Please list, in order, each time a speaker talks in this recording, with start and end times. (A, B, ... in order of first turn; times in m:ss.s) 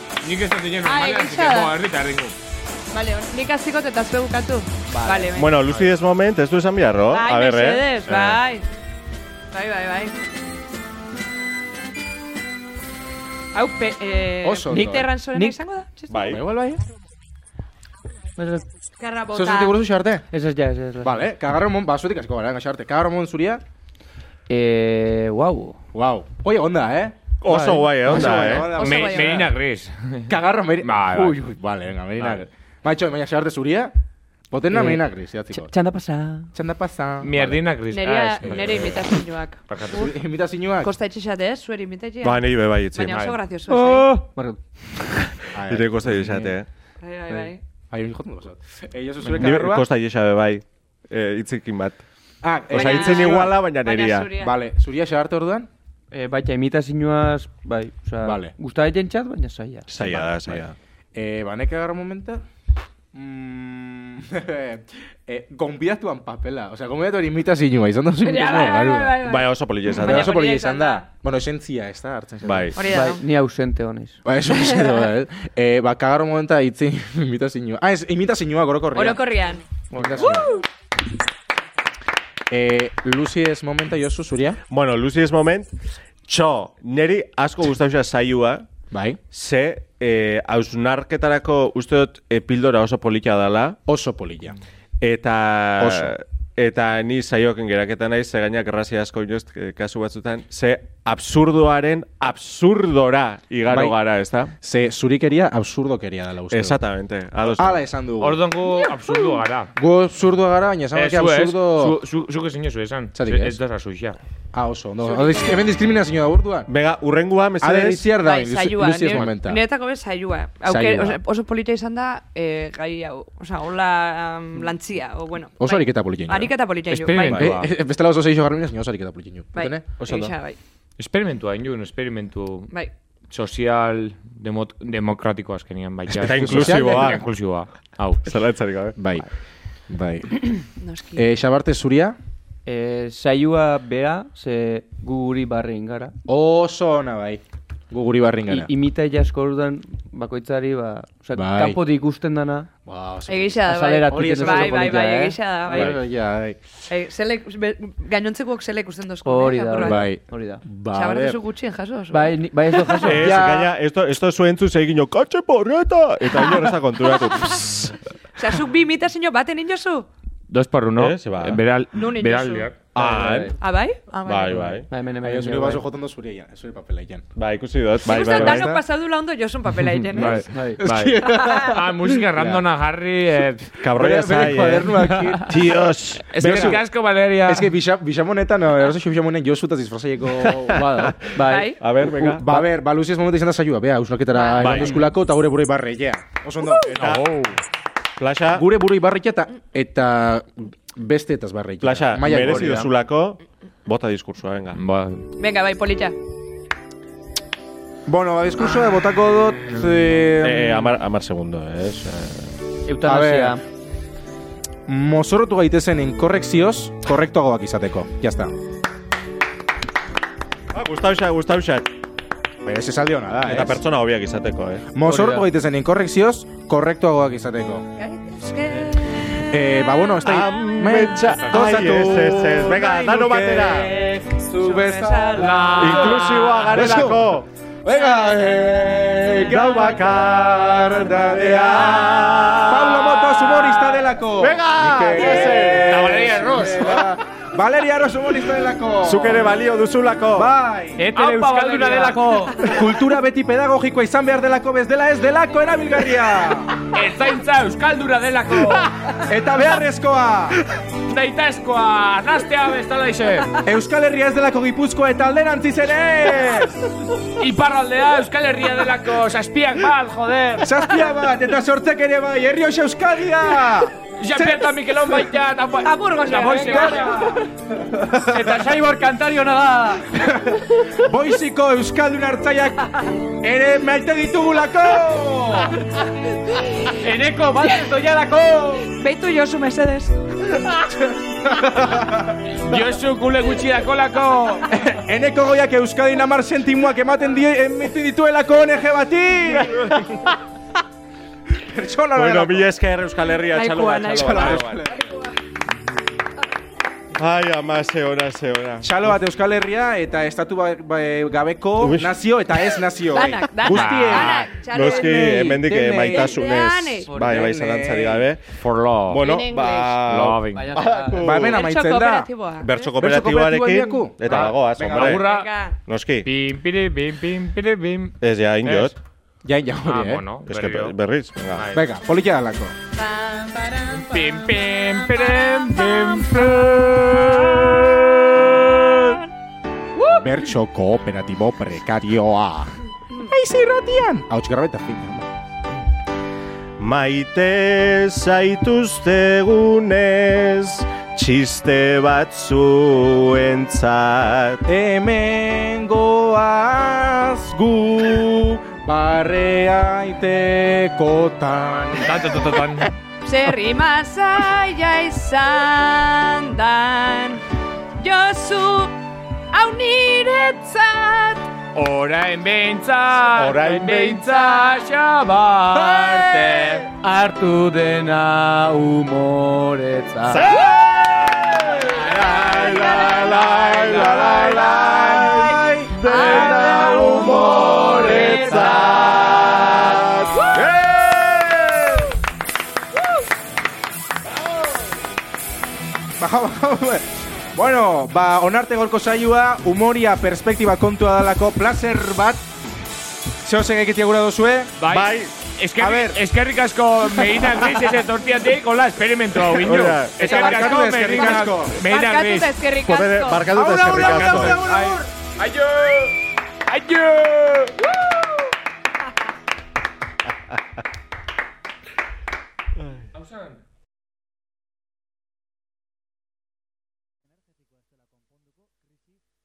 0:00.2-0:02.3 A
0:00.8-0:01.7 B
0:02.9-0:05.6 B
0:04.9-0:05.3 C
0:05.3-0:08.4 D
0:07.1-0:08.6 B
0:09.5-0:10.2 B
0:13.5-0:16.4 B
0:14.4-0:15.1 C
0:14.7-0:15.6 E
0:16.1-0:16.4 D
0:16.3-0:16.8 C
0:18.4-0:18.6 E
0:19.0-0:19.8 B
0:19.3-0:20.3 C
0:20.3-0:21.1 E
0:21.0-0:23.6 C
0:24.5-0:25.8 E
0:25.9-0:27.2 C
0:27.4-0:28.7 D
0:27.5-0:28.0 E
0:28.0-0:29.5 C
0:28.6-0:29.4 B
0:28.8-0:30.3 A
0:30.3-0:33.9 C
0:30.8-0:31.4 A
0:32.2-0:32.4 A
0:34.5-0:35.7 C
0:34.7-0:36.5 E
0:36.5-0:37.6 C
0:37.2-0:38.9 A
0:37.9-0:40.2 B
0:38.4-0:39.1 C
0:39.7-0:40.1 A
0:39.9-0:40.9 C
0:40.8-0:44.1 B
0:42.2-0:43.2 D
0:43.1-0:43.4 A
0:43.7-0:44.4 E
0:45.3-0:46.5 C
0:45.7-0:46.7 D
0:47.0-0:47.6 B
0:47.3-0:49.9 C
0:49.3-0:52.0 D
0:52.4-0:53.6 C
0:52.7-0:54.3 D
0:52.7-0:54.5 B
0:54.4-0:55.7 C
0:56.1-0:59.9 E
0:58.2-0:58.5 C
0:59.9-1:00.7 D
0:59.9-1:00.6 C
1:01.1-1:02.4 C
1:03.1-1:09.2 C
1:08.2-1:11.0 B
1:09.2-1:10.3 D
1:09.9-1:12.8 C
1:12.4-1:12.8 D
1:12.7-1:13.2 B
1:12.8-1:14.2 E
1:14.2-1:19.3 C
1:18.9-1:20.6 B
1:19.9-1:20.6 C
1:19.9-1:20.4 E
1:22.5-1:24.6 C
1:24.7-1:25.7 D
1:26.3-1:28.7 D
1:28.9-1:29.2 C
1:29.3-1:33.8 D
1:33.9-1:34.6 C
1:35.0-1:44.5 D
1:35.8-1:36.1 C
1:43.6-1:44.0 C
1:44.6-1:46.8 C
1:46.5-1:47.8 D
1:47.5-1:48.4 C
1:48.2-1:49.7 A
1:49.8-1:52.0 C
1:50.9-1:54.2 A
1:53.1-1:53.6 C
1:54.5-1:56.7 C
1:55.0-1:55.7 B
1:56.7-1:58.1 D
1:57.6-1:59.6 C
1:58.1-2:07.5 B
2:00.6-2:01.2 C
2:05.6-2:06.5 C
2:06.9-2:07.7 A
2:07.2-2:07.6 D
2:07.3-2:10.3 C
2:09.5-2:10.6 B
2:10.0-2:10.3 D
2:11.0-2:12.7 A
2:13.3-2:18.2 A
2:16.1-2:17.2 C
2:16.2-2:17.3 D
2:18.2-2:18.9 D
2:19.0-2:19.2 C
2:19.9-2:20.6 C
2:20.8-2:21.2 B
2:21.2-2:22.2 C
2:22.6-2:26.1 E
2:26.3-2:28.7 C
2:28.5-2:32.7 E
2:31.3-2:31.8 C
2:32.8-2:35.1 C
2:33.3-2:35.9 B
2:33.6-2:35.9 E
2:35.6-2:36.6 C
2:36.9-2:40.1 B
2:39.2-2:40.6 E
2:39.8-2:41.4 C
2:40.9-2:42.4 B
2:42.1-2:43.4 E
2:42.9-2:47.9 D
2:43.0-2:43.7 C
2:48.3-2:50.1 B
2:50.5-2:52.9 A
2:51.0-2:51.6 D
2:51.9-2:52.7 B
2:52.9-2:53.6 D
2:53.0-2:53.5 E
2:53.6-2:54.8 B
2:54.2-2:54.8 D
2:54.8-2:55.8 E
2:55.2-2:57.2 C
2:57.4-2:58.7 D
2:58.0-2:58.8 C
2:58.0-3:00.5 B
3:00.1-3:02.6 C
3:00.2-3:03.7 A
3:00.2-3:00.8 E
3:01.2-3:01.8 B
3:03.8-3:06.8 D
3:03.9-3:05.6 C
3:04.9-3:05.6 A
3:06.3-3:07.7 A
3:06.4-3:06.8 C
3:07.4-3:11.2 C
3:10.4-3:11.2 D
3:10.8-3:12.4 E
3:11.3-3:11.8 B
3:11.7-3:12.6 D
3:12.4-3:16.9 C
3:14.3-3:15.0 B
3:14.6-3:15.0 D
3:16.8-3:17.3 D
3:17.0-3:17.6 A
3:18.2-3:18.7 D
3:18.5-3:22.9 C
3:21.8-3:24.8 D
3:24.8-3:25.3 A
3:25.4-3:26.1 B
3:28.1-3:30.9 C
3:30.4-3:32.5 D
3:32.8-3:33.6 E
3:33.0-3:33.6 C
3:34.9-3:38.5 C
3:40.7-3:41.9 D
3:42.6-3:43.8 C
3:43.4-3:44.9 D
3:44.9-3:47.8 C
3:45.0-3:45.5 E
3:48.0-3:49.0 B
3:49.4-4:09.6 C
3:50.2-3:54.0 D
3:51.4-3:52.0 A
3:54.4-3:56.0 B
3:55.8-3:57.5 D
3:55.8-3:56.8 A
3:57.9-3:58.4 B
3:59.3-4:06.0 D
4:05.3-4:07.0 A
4:09.0-4:10.5 D
4:10.3-4:11.1 C
4:11.0-4:12.7 E
4:11.1-4:12.5 A
4:12.6-4:16.8 C
4:16.8-4:18.9 A
4:19.2-4:20.6 C
4:21.1-4:23.6 A
4:23.6-4:26.8 C
4:27.4-4:30.8 A
4:30.6-4:34.7 C
4:34.2-4:37.4 A
4:35.8-4:37.4 B
4:36.4-4:37.2 C
4:37.8-4:38.4 C
4:38.0-4:40.1 E
4:40.2-4:42.9 C
4:43.4-4:45.8 C
4:47.0-4:48.9 E
4:48.8-4:50.1 B
4:50.9-4:52.3 C
4:52.5-4:54.7 A
4:54.7-5:00.0 C
4:59.4-5:00.4 D
5:01.6-5:02.7 C
5:02.1-5:05.0 D
5:03.5-5:05.3 B
5:04.1-5:05.0 C
5:07.1-5:08.9 D
5:08.8-5:16.5 C
5:11.8-5:12.2 D
5:13.0-5:17.1 B
5:13.7-5:14.4 A
5:13.7-5:18.4 D
5:17.0-5:17.5 E
5:17.1-5:18.2 C
5:18.6-5:19.3 A
5:19.1-5:21.6 D
5:19.2-5:20.0 B
5:20.0-5:20.7 A
5:20.5-5:21.4 E
5:21.2-5:22.3 C
5:21.5-5:22.9 B
5:22.6-5:25.3 D
5:23.0-5:25.2 C
5:24.3-5:25.5 A
5:25.0-5:25.8 B
5:25.9-5:26.3 D
5:26.2-5:28.9 A
5:28.2-5:28.9 D
5:29.4-5:30.2 C
5:29.8-5:31.0 A
5:30.5-5:31.6 D
5:31.5-5:31.8 A
5:31.7-5:32.7 C
5:33.0-5:34.1 B
5:33.9-5:36.6 A
5:35.2-5:36.4 B
5:37.1-5:37.4 C
5:37.2-5:39.2 B
5:38.4-5:38.9 D
5:40.0-5:40.2 B
5:40.1-5:45.3 C
5:46.8-5:54.6 D
5:54.6-6:02.2 C
6:02.0-6:02.9 A
6:03.2-6:07.4 B
6:08.0-6:09.0 B
6:09.5-6:11.5 B
6:11.7-6:16.9 A
6:13.3-6:14.2 D
6:14.2-6:14.8 B
6:16.9-6:20.6 E
6:20.3-6:32.1 D
6:22.1-6:29.0 B
6:23.5-6:24.9 A
6:24.1-6:24.4 C
6:25.2-6:25.5 C
6:27.2-6:28.9 E
6:27.9-6:28.5 C
6:30.3-6:30.7 B
6:36.2-6:42.4 C
6:43.4-6:44.7 C
6:44.8-6:52.5 A
6:44.9-6:45.3 D
6:45.8-6:46.2 C
6:49.5-6:50.4 D
6:50.2-6:51.8 C
6:51.3-6:53.5 B
6:52.8-6:54.6 D
6:53.5-6:55.1 C
6:53.9-6:57.8 A
6:57.9-6:58.4 B
7:03.1-7:03.6 A